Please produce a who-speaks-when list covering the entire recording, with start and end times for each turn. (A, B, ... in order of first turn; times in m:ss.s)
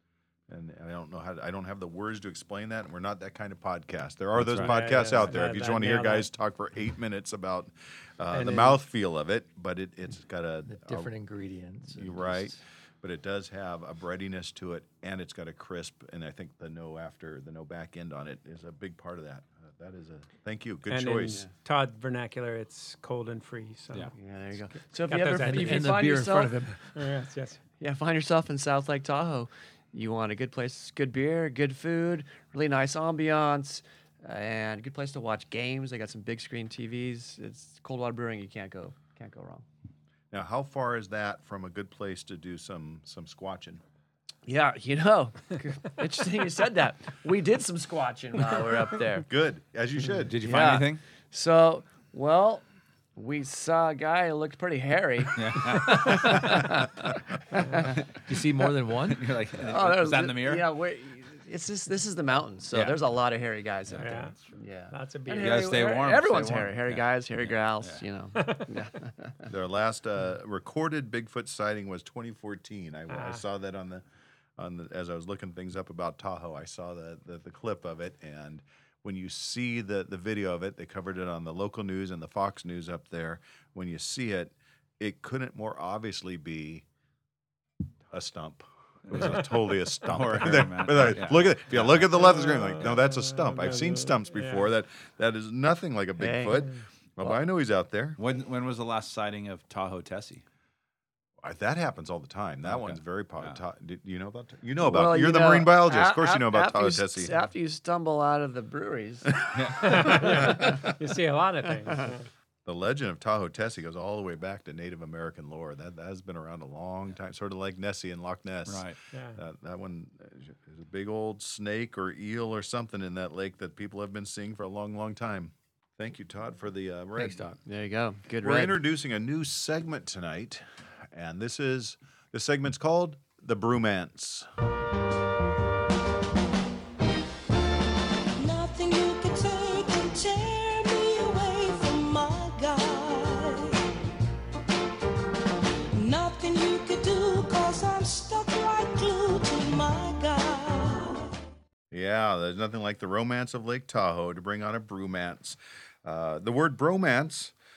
0:00.5-0:11.1 A
0:04.4-0:04.7 B
0:04.5-0:06.3 C
0:08.3-0:08.8 C
0:10.7-0:12.6 D
0:11.9-0:21.4 A
0:20.9-0:24.1 C
0:24.1-0:26.5 E
0:25.1-0:26.0 C
0:25.4-0:26.8 D
0:26.9-0:27.6 C
0:27.8-0:39.6 E
0:40.3-0:43.8 A
0:44.4-0:49.2 E
0:49.3-0:50.4 A
0:50.3-0:51.0 B
0:50.4-0:52.6 E
0:53.2-0:58.0 E
0:55.4-0:56.5 B
0:58.2-0:59.2 D
0:59.1-1:00.7 B
0:59.6-1:09.5 E
1:02.7-1:03.0 B
1:04.0-1:04.4 C
1:04.9-1:05.7 C
1:05.4-1:08.0 B
1:09.5-1:14.0 A
1:13.1-1:13.4 C
1:14.6-1:26.8 A
1:28.1-1:38.2 A
1:29.1-1:29.5 B
1:30.0-1:32.2 B
1:32.2-1:34.6 C
1:36.2-1:36.6 E
1:38.2-1:40.4 B
1:41.4-1:47.3 A
1:42.6-1:43.6 B
1:44.8-1:49.4 E
1:49.6-1:50.5 B
1:49.8-1:52.2 C
1:52.6-2:07.4 A
1:58.6-1:59.0 B
1:59.1-1:59.4 C
2:07.2-2:07.6 D
2:07.6-2:08.8 E
2:08.4-2:14.5 A
2:18.4-2:23.8 F
2:25.9-2:31.3 F
2:31.9-2:37.5 A